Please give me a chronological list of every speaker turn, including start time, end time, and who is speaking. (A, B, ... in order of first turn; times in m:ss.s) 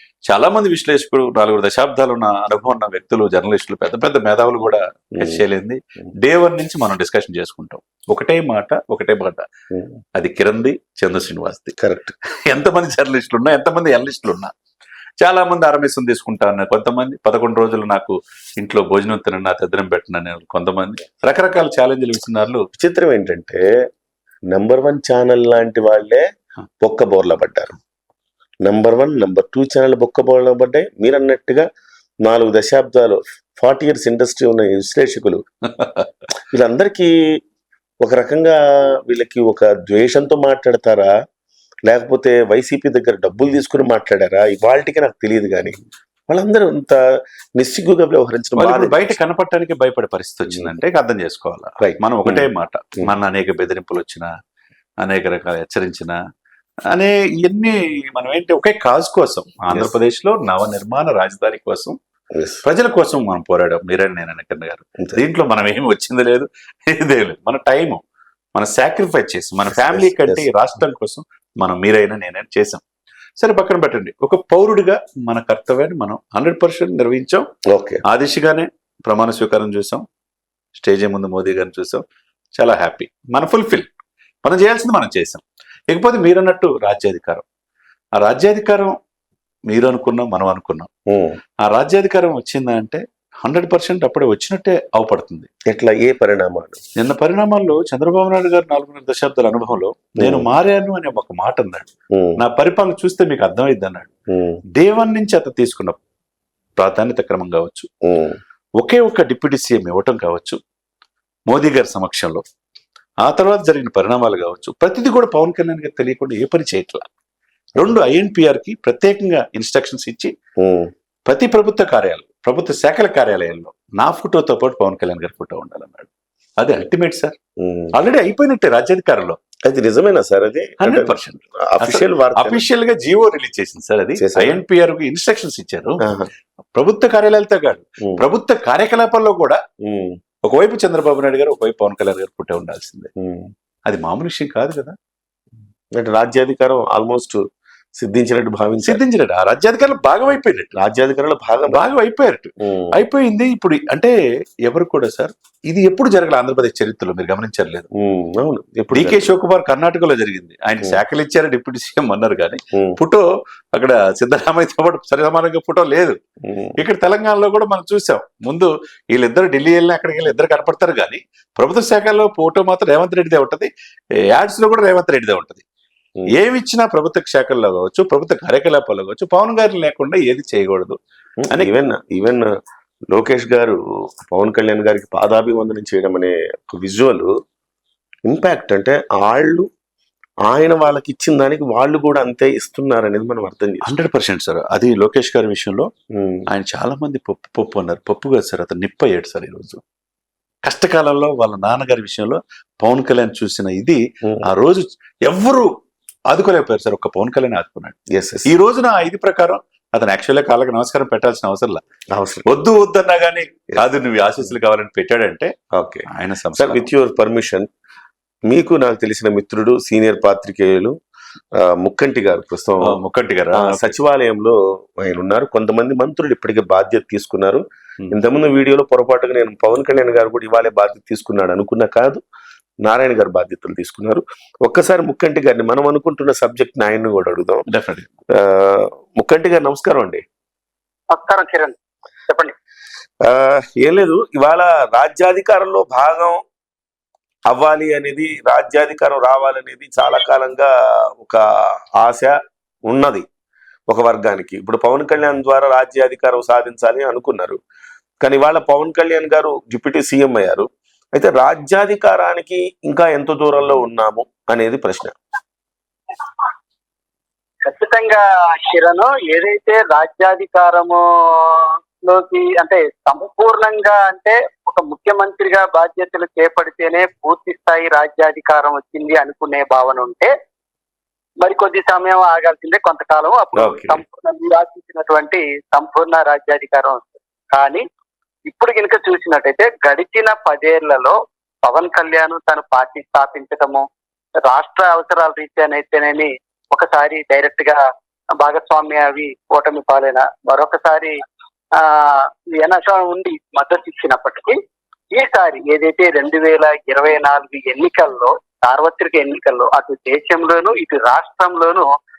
0:00.3-0:09.4 A
0:10.2-0:11.8 A
0:11.8-0:12.1 B
0:12.3-0:14.5 A
0:15.2-0:22.7 A
0:22.8-0:23.6 B
0:24.5-0:26.2 B
0:26.8-0:27.8 B
0:28.6-0:31.7 B
0:32.2-0:35.4 B
0:35.8-0:36.1 A
0:36.5-0:37.1 B
0:38.0-0:41.1 B
0:41.9-0:45.8 B
0:46.3-0:47.0 B
0:47.6-0:49.2 B
0:48.6-0:54.3 A
0:51.8-0:52.5 B
0:55.0-0:56.2 A
0:56.9-1:02.0 A
1:02.3-1:02.6 B
1:02.6-1:08.0 A
1:08.6-1:12.8 A
1:09.7-1:10.4 B
1:13.4-1:17.4 A
1:17.7-1:18.0 B
1:18.1-1:20.0 A
1:20.8-1:22.0 A
1:22.6-1:23.9 A
1:24.4-1:27.4 A
1:28.2-1:29.0 A
1:29.7-1:30.9 A
1:31.1-1:31.4 B
1:31.7-1:35.5 A
1:35.7-1:36.8 B
1:37.0-1:44.1 A
1:40.2-1:40.5 B
1:42.1-1:42.4 B
1:44.3-1:44.6 B
1:44.8-1:46.0 A
1:46.8-1:47.9 A
1:48.0-1:48.4 B
1:48.8-1:50.6 A
1:51.5-1:52.4 A
1:53.2-1:57.0 A
1:57.8-2:00.3 A
2:00.6-2:00.9 B
2:01.3-2:07.4 A
2:07.6-2:07.9 B
2:07.9-2:09.4 A
2:09.7-2:12.6 B
2:10.8-2:16.0 A
2:14.2-2:14.6 B
2:16.0-2:16.3 B
2:16.8-2:19.6 A
2:19.8-2:20.2 B
2:20.4-2:23.1 A
2:23.2-2:23.5 B
2:23.9-2:25.0 A
2:26.0-2:27.4 B
2:28.0-2:29.0 B
2:28.8-2:30.7 A
2:30.8-2:31.9 B
2:31.7-2:34.1 A
2:32.6-2:33.0 B
2:34.7-2:37.9 A
2:38.0-2:39.3 B
2:38.9-2:46.2 A
2:46.4-2:46.8 B
2:46.8-2:53.7 A
2:54.3-2:55.6 A
2:56.3-3:01.0 A
3:01.4-3:02.5 B
3:03.1-3:07.3 B
3:08.3-3:09.7 B
3:10.5-3:13.9 B
3:13.8-3:15.9 A
3:16.1-3:16.5 B
3:16.5-3:19.8 A
3:20.6-3:25.7 A
3:26.3-3:28.0 A
3:28.1-3:28.5 B
3:28.5-3:31.8 A
3:32.1-3:32.5 B
3:32.5-3:35.5 A
3:35.7-3:37.7 B
3:36.1-3:36.9 A
3:38.5-3:41.0 B
3:41.6-3:43.0 B
3:42.8-3:44.0 A
3:43.5-3:52.2 B
3:52.8-3:57.6 B
3:57.7-3:58.1 A
3:58.4-4:00.2 B
4:01.1-4:01.8 C
4:02.3-4:02.5 C
4:03.2-4:06.4 B
4:07.5-4:11.4 B
4:12.0-4:12.3 B
4:12.9-4:13.2 B
4:13.9-4:17.6 B
4:18.2-4:25.2 B
4:27.6-4:40.3 C
4:41.4-4:47.8 C
4:43.6-4:44.0 B
4:48.5-4:53.8 C
4:54.4-4:57.8 C
4:58.4-5:01.2 C
5:01.8-5:04.6 C
5:05.1-5:11.9 C